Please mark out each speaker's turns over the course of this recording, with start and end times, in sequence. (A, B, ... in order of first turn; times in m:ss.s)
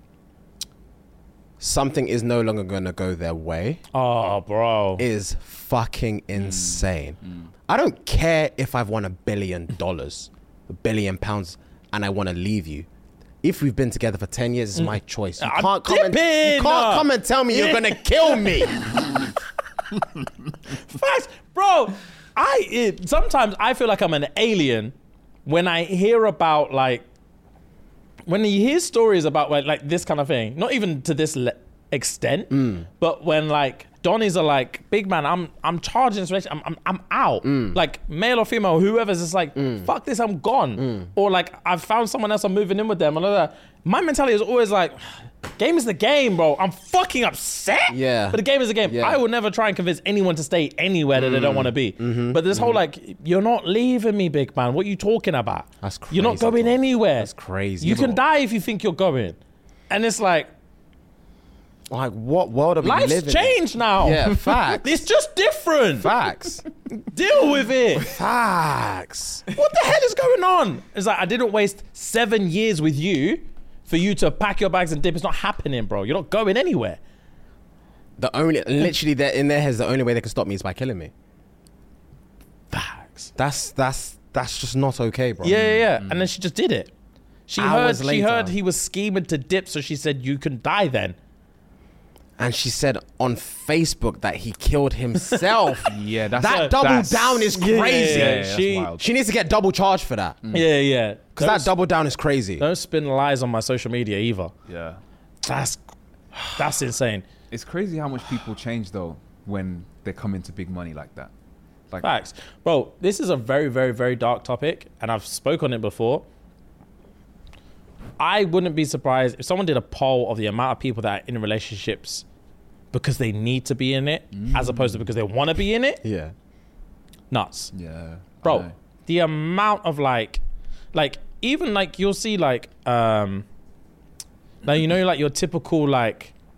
0:01.6-0:03.8 A
0:03.9-0:05.0 B
0:05.0-0:12.9 A
0:06.4-0:07.4 C
0:13.4-0:18.8 A
0:14.8-0:18.6 B
0:20.7-0:24.9 B
0:25.4-0:27.0 B
0:28.3-0:45.0 B
0:32.5-0:32.8 A
0:37.4-0:37.8 A
0:39.6-0:39.9 A
0:40.8-0:41.1 A
0:45.5-0:59.4 B
0:47.9-0:49.2 A
0:51.1-0:52.8 A
0:55.8-0:58.2 A
0:59.9-1:00.5 B
1:01.9-1:05.0 A
1:02.8-1:06.1 B
1:06.0-1:06.6 A
1:07.0-1:08.1 B
1:07.9-1:09.4 A
1:09.5-1:17.0 B
1:18.2-1:21.1 A
1:22.7-1:23.3 B
1:23.4-1:25.6 A
1:25.4-1:26.9 B
1:25.5-1:26.3 C
1:27.5-1:31.2 B
1:27.6-1:28.5 A
1:32.4-1:40.4 A
1:35.8-1:39.0 C
1:36.4-1:36.8 B
1:37.5-1:38.9 B
1:40.5-1:41.7 B
1:41.4-1:42.6 A
1:42.6-1:44.5 B
1:44.6-1:45.0 C
1:45.4-1:45.8 B
1:46.5-1:47.2 B
1:47.5-1:51.3 C
1:52.0-1:56.2 B
1:58.2-2:02.2 B
2:02.9-2:06.0 B
2:04.3-2:05.0 C
2:06.0-2:06.3 A
2:07.3-2:07.7 B
2:07.7-2:08.7 C
2:08.4-2:10.4 B
2:10.9-2:13.4 B
2:14.6-2:16.3 B